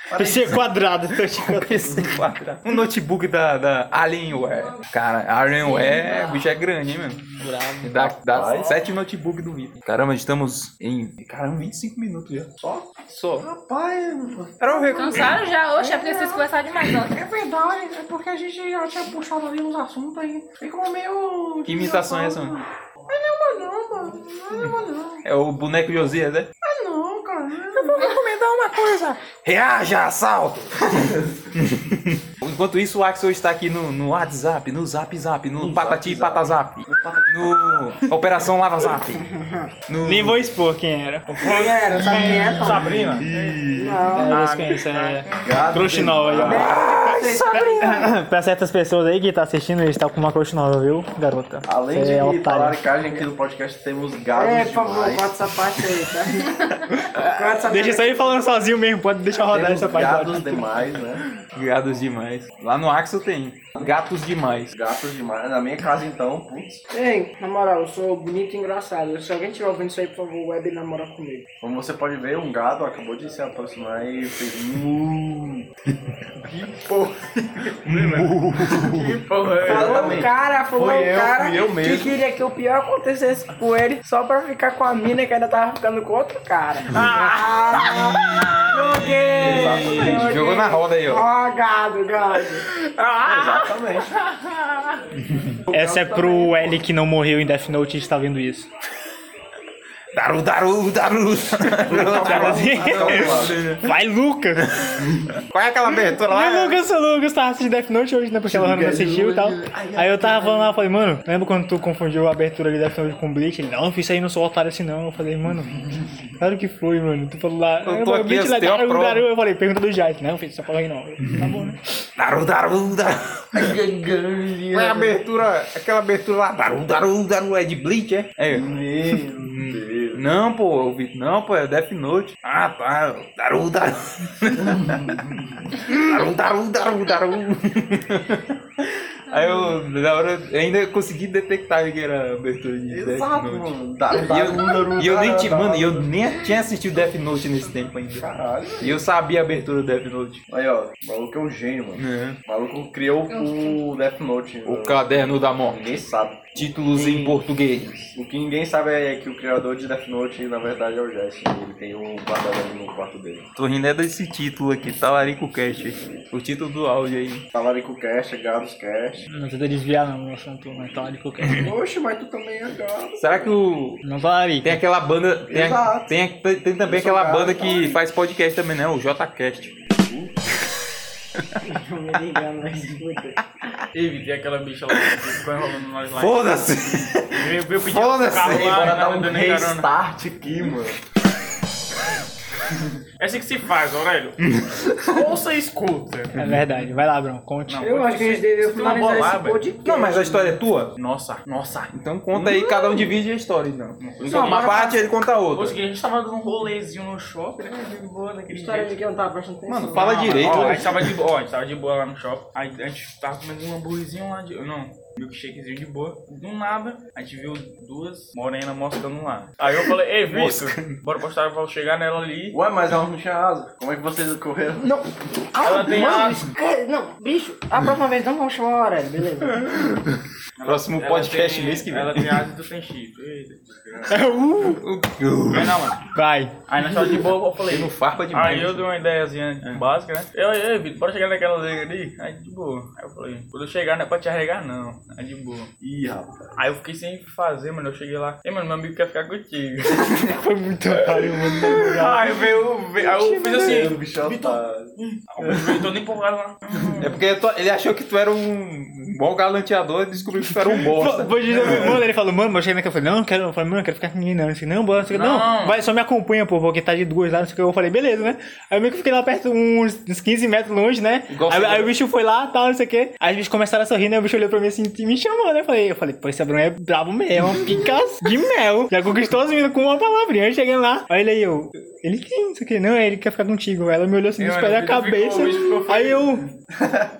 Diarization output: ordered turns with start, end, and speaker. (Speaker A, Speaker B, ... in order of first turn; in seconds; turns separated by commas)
Speaker A: 0.1-0.6, Speaker B: 0.1-2.0, Speaker C: 1.1-7.3, Speaker D: 5.6-6.5, Speaker B: 7.3-8.2, Speaker C: 7.8-12.5, Speaker A: 8.3-8.8, Speaker A: 12.6-14.9, Speaker C: 13.0-13.5, Speaker C: 14.6-15.4, Speaker D: 14.9-17.2, Speaker E: 15.8-16.3, Speaker A: 17.1-22.5, Speaker C: 21.6-22.6, Speaker E: 23.1-23.9, Speaker A: 23.1-25.1, Speaker C: 25.2-26.5, Speaker A: 26.6-28.1, Speaker C: 27.8-39.2, Speaker A: 35.6-37.8, Speaker E: 39.1-39.7, Speaker C: 39.9-40.4, Speaker B: 40.0-41.3, Speaker F: 41.3-43.7, Speaker E: 41.4-44.4, Speaker A: 42.0-42.9, Speaker C: 43.2-44.1, Speaker B: 44.1-46.7, Speaker F: 44.2-45.6, Speaker A: 45.4-46.8, Speaker E: 46.4-48.1, Speaker C: 46.7-47.3, Speaker B: 47.6-52.8, Speaker A: 51.6-55.3, Speaker E: 54.3-58.2, Speaker B: 57.1-60.7, Speaker A: 59.5-61.2, Speaker C: 61.5-64.7, Speaker A: 64.7-66.8, Speaker E: 66.9-71.4, Speaker A: 71.6-75.7, Speaker F: 76.5-80.2, Speaker C: 77.8-79.2, Speaker A: 79.6-82.2, Speaker E: 79.6-92.7, Speaker F: 86.9-87.6, Speaker C: 87.7-91.2, Speaker A: 88.9-90.4, Speaker A: 93.2-94.2, Speaker C: 95.1-95.7, Speaker B: 95.7-98.7, Speaker A: 95.7-96.6, Speaker C: 100.1-104.0, Speaker A: 101.8-103.6, Speaker B: 101.9-104.8, Speaker C: 104.6-106.8, Speaker B: 105.9-115.7, Speaker A: 108.5-110.7, Speaker B: 116.4-121.8, Speaker C: 117.8-119.3, Speaker C: 121.2-121.6, Speaker C: 122.2-123.8, Speaker A: 123.5-125.2, Speaker C: 124.7-148.3, Speaker A: 128.5-130.2, Speaker A: 134.6-135.6, Speaker D: 139.3-139.7, Speaker A: 142.9-146.1, Speaker A: 148.1-149.0, Speaker C: 148.8-150.4, Speaker A: 150.5-157.4, Speaker C: 151.9-152.4, Speaker D: 153.3-153.8, Speaker C: 154.6-155.9, Speaker C: 156.5-158.1, Speaker A: 158.1-163.5, Speaker C: 163.6-167.4, Speaker A: 167.5-169.2, Speaker B: 169.3-171.7, Speaker C: 171.4-171.7, Speaker A: 171.6-173.5, Speaker C: 173.2-174.0, Speaker B: 174.0-174.8, Speaker C: 174.6-179.7, Speaker A: 175.5-176.1, Speaker A: 176.8-177.9, Speaker A: 179.7-180.3, Speaker E: 181.6-183.4, Speaker F: 183.9-186.4, Speaker C: 184.9-185.3, Speaker C: 186.2-189.0, Speaker F: 187.3-189.9, Speaker A: 188.4-191.0, Speaker F: 193.2-194.4, Speaker C: 194.4-195.3, Speaker F: 195.0-196.8, Speaker B: 196.3-197.9, Speaker F: 197.7-199.7, Speaker E: 197.8-200.6, Speaker C: 199.8-200.9, Speaker F: 200.9-202.6, Speaker C: 201.9-205.8, Speaker F: 204.0-204.9, Speaker E: 204.2-205.0, Speaker F: 205.5-209.0, Speaker E: 207.6-210.7, Speaker C: 209.7-211.1, Speaker F: 209.9-222.6, Speaker C: 220.3-221.0, Speaker A: 222.5-224.8, Speaker E: 224.8-229.7, Speaker F: 225.6-226.5, Speaker C: 229.4-232.4, Speaker F: 230.6-234.1, Speaker B: 234.1-234.8, Speaker C: 234.6-235.9, Speaker F: 235.5-236.0, Speaker B: 236.1-236.6, Speaker F: 236.7-245.7, Speaker C: 237.7-238.9, Speaker A: 245.8-246.5, Speaker F: 246.6-250.3, Speaker B: 250.0-252.2, Speaker F: 251.0-257.2, Speaker A: 253.1-255.9, Speaker C: 257.0-261.9, Speaker B: 260.6-286.4, Speaker F: 261.6-261.9, Speaker F: 265.1-265.8, Speaker C: 271.3-271.9, Speaker F: 284.4-286.4, Speaker A: 286.8-287.1